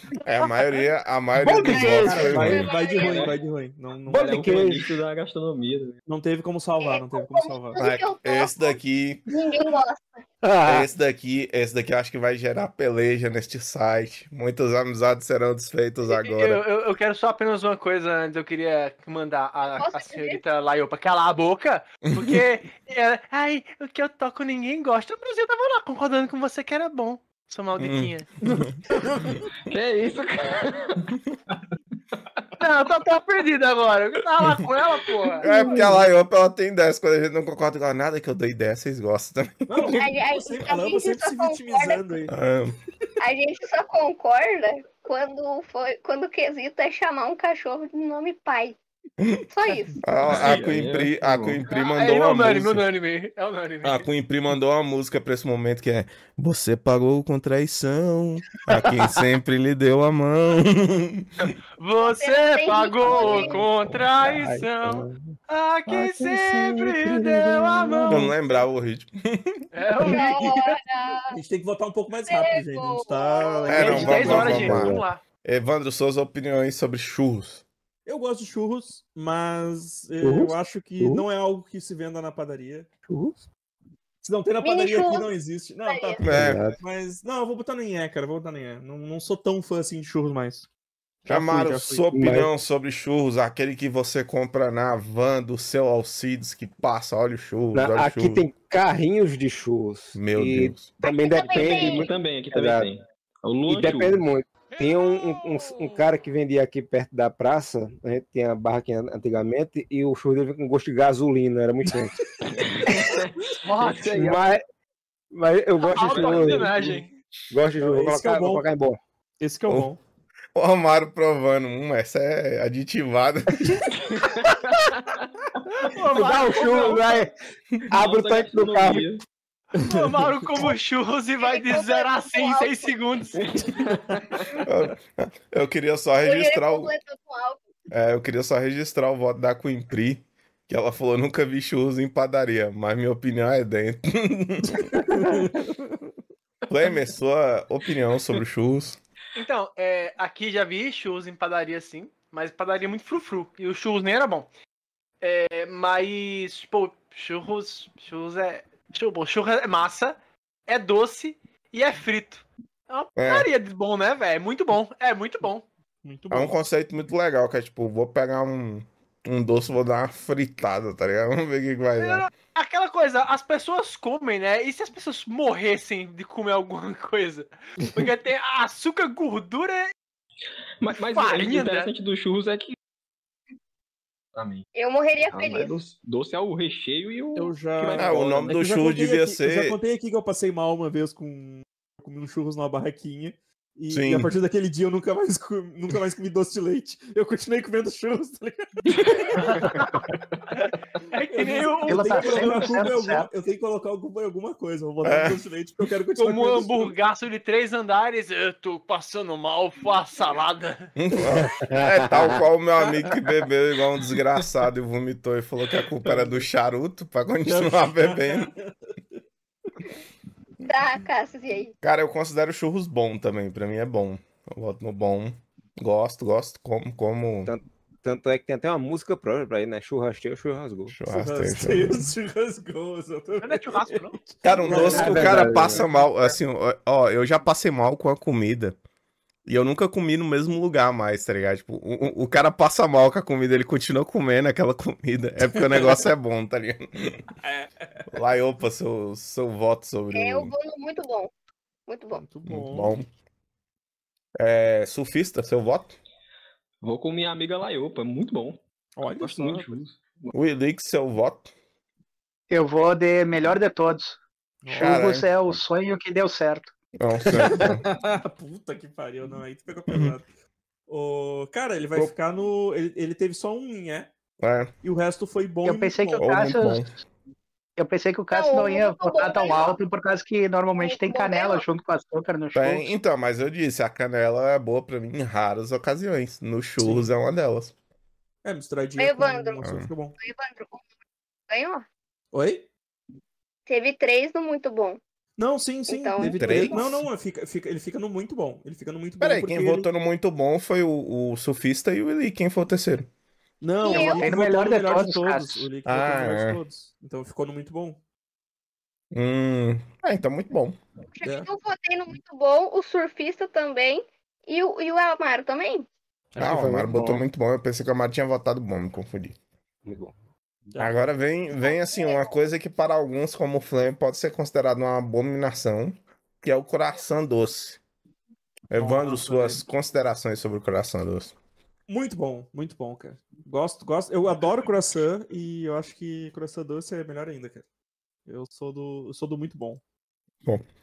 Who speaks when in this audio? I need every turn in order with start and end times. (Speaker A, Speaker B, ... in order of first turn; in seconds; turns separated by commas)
Speaker A: 0.2-2.6, Speaker B: 1.4-2.5, Speaker C: 2.0-4.3, Speaker D: 2.4-3.3, Speaker E: 3.0-3.3, Speaker B: 4.1-5.0, Speaker E: 4.2-6.0, Speaker C: 6.1-7.8, Speaker D: 6.8-10.2, Speaker A: 7.8-9.2, Speaker B: 10.4-10.9, Speaker A: 10.6-16.6, Speaker F: 16.1-28.6, Speaker D: 19.8-20.4, Speaker A: 22.1-22.4, Speaker A: 27.8-28.6, Speaker C: 29.0-29.4, Speaker E: 29.7-32.5, Speaker F: 32.6-35.5, Speaker A: 35.4-39.6, Speaker C: 39.7-42.3, Speaker D: 39.8-42.1, Speaker A: 42.3-42.8, Speaker D: 43.2-48.8, Speaker D: 49.5-50.1, Speaker A: 50.0-52.9, Speaker E: 50.3-51.6, Speaker F: 51.7-54.1, Speaker A: 53.8-61.3, Speaker F: 61.8-68.3, Speaker D: 62.0-63.7, Speaker B: 63.8-65.3, Speaker B: 65.9-68.3, Speaker A: 68.1-69.6, Speaker F: 69.7-70.8, Speaker D: 70.0-71.4, Speaker C: 71.3-74.6, Speaker D: 72.2-74.4, Speaker A: 73.7-77.6, Speaker F: 73.8-75.2, Speaker B: 74.2-75.1, Speaker C: 78.1-82.9, Speaker B: 80.2-81.2, Speaker B: 83.1-83.4, Speaker C: 84.2-90.7, Speaker D: 84.6-85.3, Speaker D: 85.8-86.4, Speaker A: 86.2-86.6, Speaker B: 86.3-86.8, Speaker C: 91.3-92.1, Speaker A: 91.3-98.5, Speaker B: 92.1-92.5, Speaker B: 97.7-102.9, Speaker A: 100.2-100.9, Speaker D: 101.0-102.1, Speaker E: 101.5-104.3, Speaker B: 103.7-112.1, Speaker E: 112.5-114.5, Speaker G: 113.7-114.3, Speaker B: 114.1-114.6, Speaker B: 115.3-119.0, Speaker F: 115.9-117.1, Speaker E: 116.0-116.8, Speaker C: 117.8-118.6, Speaker C: 119.4-120.0, Speaker A: 120.5-124.3, Speaker E: 123.8-125.9, Speaker F: 125.8-127.2, Speaker B: 126.1-127.3, Speaker B: 127.9-129.1, Speaker E: 127.9-129.2, Speaker C: 129.8-130.6, Speaker F: 129.8-133.4, Speaker D: 131.4-133.0, Speaker E: 133.4-134.5, Speaker C: 133.9-134.4, Speaker A: 134.7-136.9, Speaker D: 136.2-137.6, Speaker A: 137.9-145.1, Speaker C: 144.7-146.1, Speaker A: 146.7-149.0, Speaker F: 149.3-154.5, Speaker F: 155.2-160.2, Speaker F: 160.7-165.7, Speaker A: 163.2-163.5, Speaker C: 166.0-166.6, Speaker A: 166.3-172.3, Speaker F: 172.0-179.9, Speaker E: 180.8-182.8, Speaker F: 181.0-181.9, Speaker E: 184.3-184.7, Speaker D: 184.8-185.8, Speaker E: 185.3-188.6, Speaker C: 187.4-199.7, Speaker A: 187.9-189.8, Speaker A: 193.9-194.3, Speaker F: 199.4-200.0, Speaker F: 200.6-202.6, Speaker C: 201.3-206.9, Speaker G: 201.9-203.3, Speaker A: 205.0-205.4, Speaker F: 206.2-210.9, Speaker A: 211.0-218.5, Speaker B: 211.3-212.4, Speaker C: 216.0-216.5, Speaker C: 217.4-218.7, Speaker D: 220.6-221.7, Speaker A: 221.8-227.5, Speaker B: 227.4-231.0, Speaker A: 230.9-232.0, Speaker C: 231.1-236.0, Speaker F: 233.4-234.2, Speaker A: 234.4-238.8, Speaker B: 234.7-235.9, Speaker A: 239.5-247.2, Speaker C: 247.4-248.1, Speaker A: 248.1-250.5, Speaker D: 250.1-251.3, Speaker D: 251.9-252.2, Speaker C: 252.1-253.0, Speaker A: 252.5-253.1, Speaker A: 254.4-256.0, Speaker E: 256.8-258.6, Speaker C: 259.0-259.7, Speaker E: 259.2-260.3, Speaker A: 260.3-261.5, Speaker G: 262.5-266.7, Speaker C: 264.6-265.1, Speaker A: 264.8-265.6, Speaker A: 267.0-267.8, Speaker C: 267.4-270.3, Speaker A: 269.9-270.1, Speaker C: 270.9-274.1, Speaker A: 274.4-274.7, Speaker C: 274.8-276.5, Speaker G: 275.6-276.8, Speaker A: 276.2-276.9, Speaker G: 277.8-282.9, Speaker D: 278.3-279.8, Speaker D: 280.8-281.7, Speaker A: 282.5-287.7, Speaker C: 286.8-287.1, Speaker C: 288.4-290.2, Speaker D: 289.0-289.6, Speaker A: 289.6-289.9, Speaker D: 290.2-290.9, Speaker D: 291.5-291.9, Speaker C: 292.3-292.7, Speaker D: 293.7-295.0, Speaker C: 295.4-299.9, Speaker D: 295.9-296.8, Speaker A: 296.4-297.1, Speaker A: 299.2-303.1, Speaker C: 303.6-308.0, Speaker D: 303.8-304.4, Speaker G: 303.9-305.7, Speaker A: 305.9-306.6, Speaker A: 309.1-310.8, Speaker D: 311.1-315.9, Speaker C: 311.2-311.5, Speaker C: 316.4-316.6, Speaker B: 316.4-317.2, Speaker A: 316.4-319.4, Speaker B: 319.9-320.1, Speaker A: 320.8-327.8, Speaker D: 321.6-322.3, Speaker A: 328.7-331.4, Speaker C: 328.8-329.6, Speaker C: 331.9-337.6, Speaker C: 338.3-339.8